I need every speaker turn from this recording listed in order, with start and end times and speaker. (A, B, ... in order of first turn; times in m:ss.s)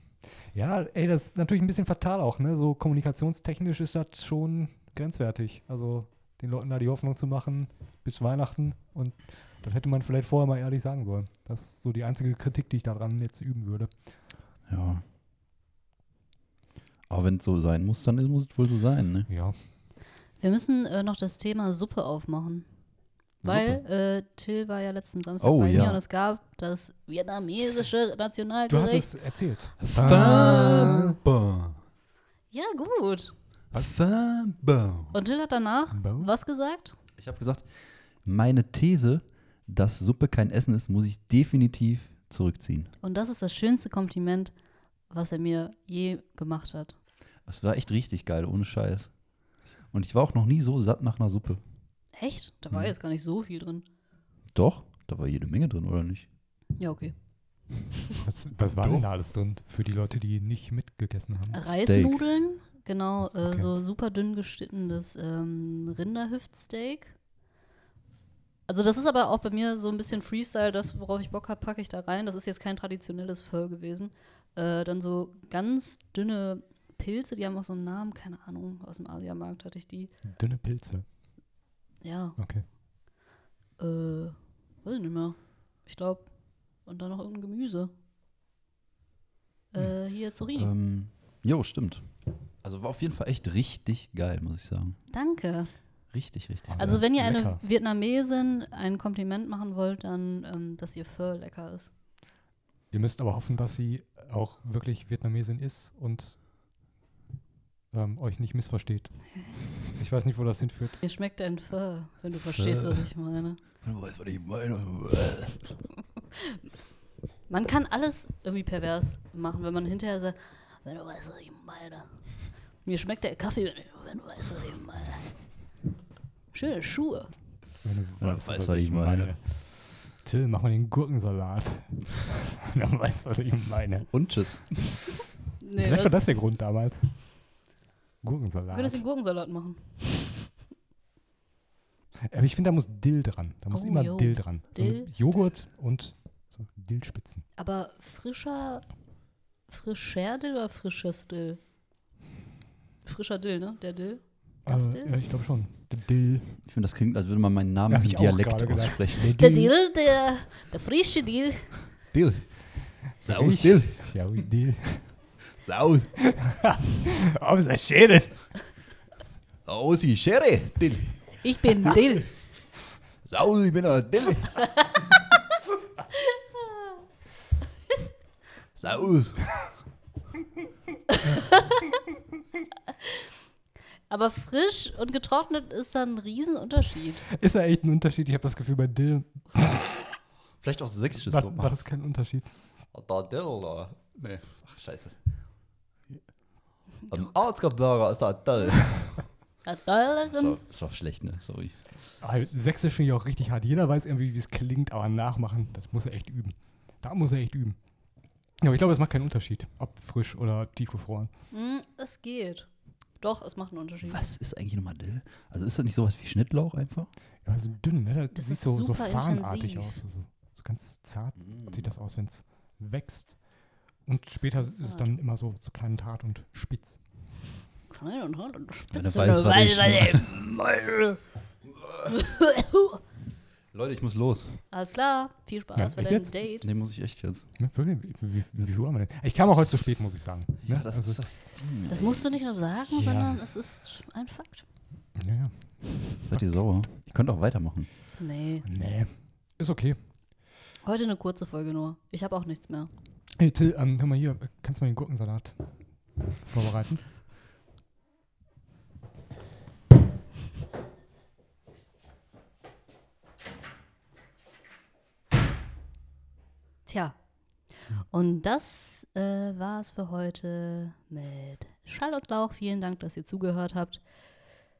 0:00.4-0:13.9 A
0:14.7-0:15.0 B
0:17.1-0:19.3 B
0:19.3-0:19.6 A
0:20.4-0:22.7 C
0:23.4-0:23.8 B
0:23.4-0:29.1 C
0:25.4-0:26.0 B
0:28.7-0:31.1 A
0:29.8-0:31.8 B
0:30.0-0:31.1 C
0:32.5-0:33.3 C
0:33.7-0:35.2 B
0:35.1-0:37.0 C
0:35.9-0:36.3 A
0:37.2-0:37.7 B
0:38.2-0:42.9 B
0:43.0-0:44.5 C
0:45.1-0:47.0 C
0:47.4-0:49.1 B
0:49.9-0:51.6 B
0:52.2-0:53.8 C
0:54.5-0:56.3 B
0:56.8-0:57.1 C
0:58.2-1:01.7 A
0:58.8-0:59.0 B
1:01.5-1:07.1 C
1:01.6-1:02.2 B
1:03.3-1:03.7 A
1:08.7-1:20.1 C
1:20.3-1:21.0 A
1:22.0-1:22.4 C
1:22.4-1:22.6 A
1:23.8-1:26.3 C
1:26.8-1:27.9 C
1:29.7-1:30.7 C
1:30.6-1:32.1 B
1:32.6-1:35.0 B
1:35.1-1:35.7 C
1:36.1-1:37.0 B
1:36.7-1:37.6 A
1:36.8-1:41.9 C
1:42.9-1:46.4 A
1:47.9-1:51.0 A
1:51.0-1:53.6 C
1:52.6-1:53.1 B
1:53.8-1:55.8 B
1:57.5-2:02.1 C
2:02.8-2:05.3 C
2:06.5-2:07.3 C
2:07.8-2:14.1 A
2:08.2-2:09.3 B
2:14.1-2:15.0 B
2:15.6-2:16.2 C
2:15.8-2:17.2 A
2:18.2-2:19.0 A
2:18.7-2:20.5 C
2:22.2-2:27.4 A
2:23.7-2:25.2 C
2:27.6-2:28.9 C
2:29.7-2:31.6 C
2:33.0-2:35.2 C
2:34.6-2:36.6 A
2:36.6-2:39.3 B
2:37.9-2:39.7 A
2:39.4-2:41.8 C
2:42.1-2:44.4 B
2:43.2-2:45.2 A
2:45.5-2:46.1 B
2:46.2-2:48.5 A
2:49.6-2:52.0 B
2:51.4-2:52.3 C
2:53.2-2:55.2 B
2:58.8-2:59.6 B
3:01.1-3:01.8 C
3:04.1-3:07.2 C
3:07.3-3:09.9 A
3:10.6-3:11.7 B
3:11.3-3:12.5 A
3:12.9-3:15.2 B
3:17.1-3:19.2 B
3:19.6-3:20.6 C
3:20.3-3:21.8 B
3:22.2-3:27.8 A
3:28.6-3:31.3 A
3:31.5-3:32.7 C
3:33.2-3:34.2 C
3:34.0-3:37.1 B
3:37.4-3:43.4 A
3:38.3-3:40.0 C
3:41.4-3:41.8 B
3:44.0-3:47.0 A
3:44.4-3:45.0 C
3:47.9-3:51.2 C
3:48.9-3:50.3 B
3:51.7-3:52.1 B
3:52.1-3:53.0 C
3:53.7-3:54.6 B
3:54.7-3:56.7 C
3:55.8-3:56.3 A
3:56.6-3:57.5 B
3:57.6-4:01.2 A
4:00.6-4:02.2 B
4:01.9-4:04.6 C
4:03.0-4:03.4 A
4:05.2-4:06.4 A
4:06.2-4:07.9 B
4:08.2-4:08.6 C
4:08.6-4:10.0 A
4:10.8-4:12.9 C
4:13.4-4:15.6 A
4:16.4-4:17.0 A
4:26.8-4:27.2 C
4:27.9-4:34.0 C